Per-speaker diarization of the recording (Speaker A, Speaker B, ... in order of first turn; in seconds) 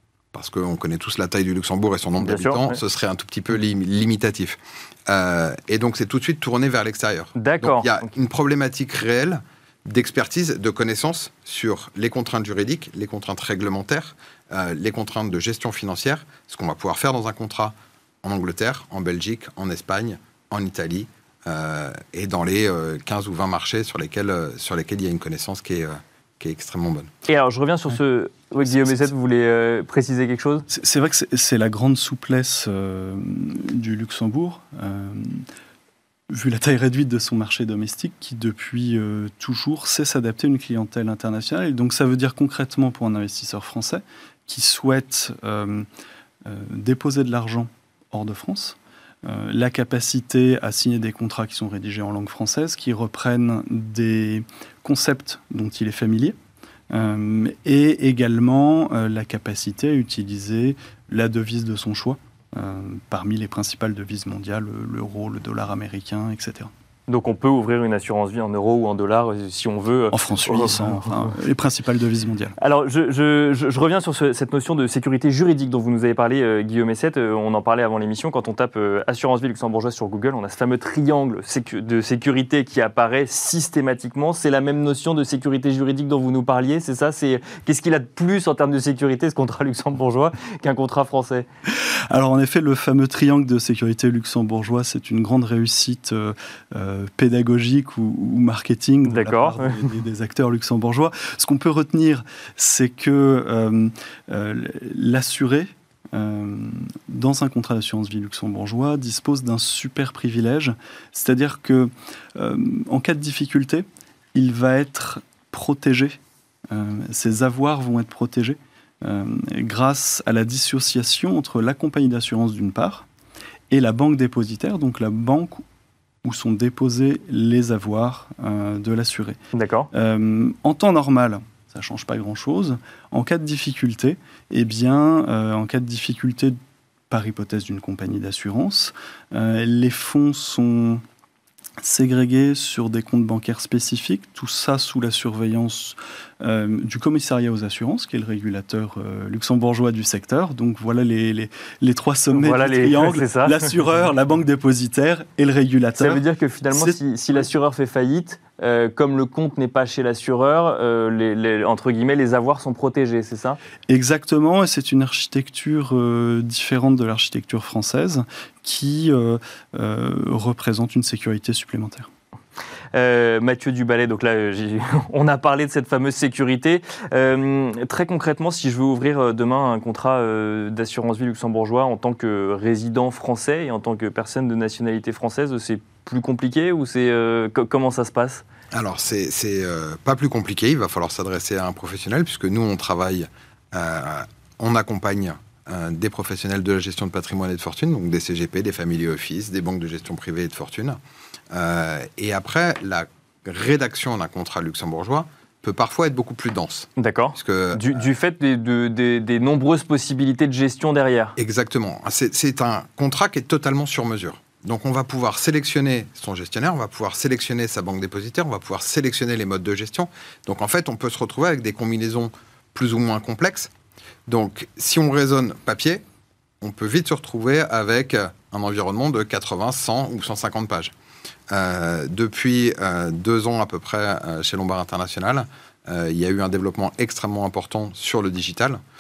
Speaker A: 0.3-27.1, 188.7-201.0, 201.5-208.1, 211.4-223.7, 224.3-226.0, 226.6-230.9, 231.5-238.8
Speaker B: 2.2-2.8, 7.4-8.1, 27.3-30.6, 67.1-71.3, 72.6-91.5, 99.1-99.8, 129.5-129.9, 152.3-153.7, 156.0-163.6, 172.9-188.4, 207.0-211.3
Speaker C: 30.7-35.5, 36.3-45.9, 46.5-56.4, 56.9-66.7, 70.1-72.5, 91.7-116.2, 116.7-123.1, 123.7-125.6, 126.2-129.4, 129.9-136.6, 137.1-141.0, 141.8-157.4, 163.9-172.1